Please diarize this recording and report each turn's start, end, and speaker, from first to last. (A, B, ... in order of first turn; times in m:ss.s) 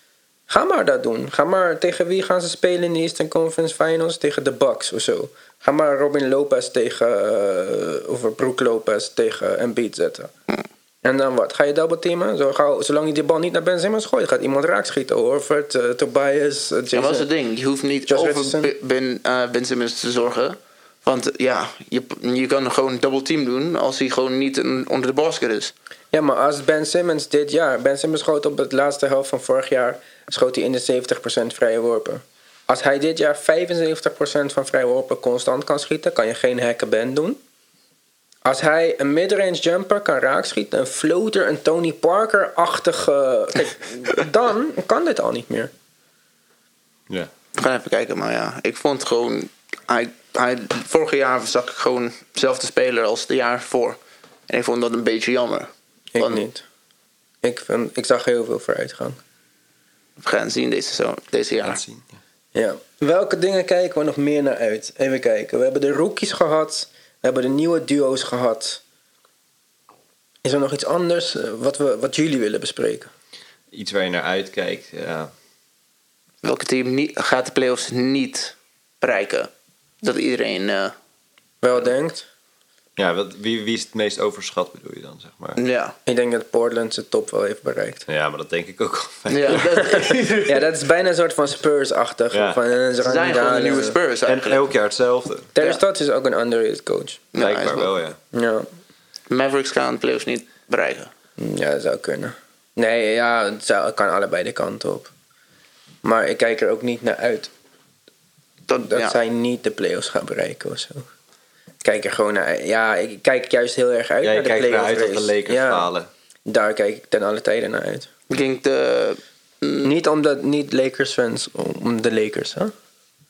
0:00.5-0:10.3 A
0:11.0-0:17.3 A
0:16.9-0:25.7 B
0:18.1-0:18.7 A
0:26.1-0:37.4 A
0:38.4-0:45.7 A
0:47.6-0:56.4 B
0:56.1-0:56.6 A
0:57.4-0:59.2 A
1:00.2-1:01.8 B
1:01.6-1:02.1 C
1:02.5-1:08.8 A
1:10.4-1:13.1 A
1:13.7-1:15.3 C
1:16.4-1:19.5 B
1:20.0-1:20.9 B
1:21.6-1:22.2 A
1:23.0-1:25.6 C
1:25.6-1:25.9 B
1:26.0-1:28.0 A
1:28.1-1:29.8 C
1:29.3-1:30.7 B
1:29.5-1:34.0 A
1:32.3-1:32.6 C
1:33.0-1:34.6 B
1:34.2-1:35.5 C
1:35.5-1:37.2 A
1:37.3-1:37.9 B
1:37.4-1:38.2 C
1:38.3-1:38.7 A
1:39.3-1:41.1 B
1:41.4-1:45.1 A
1:46.0-1:47.5 A
1:48.7-1:49.1 B
1:48.8-1:51.1 A
1:51.8-1:55.9 A
1:54.2-1:56.1 C
1:56.5-1:58.1 A
1:58.3-1:59.9 B
1:59.8-2:02.7 A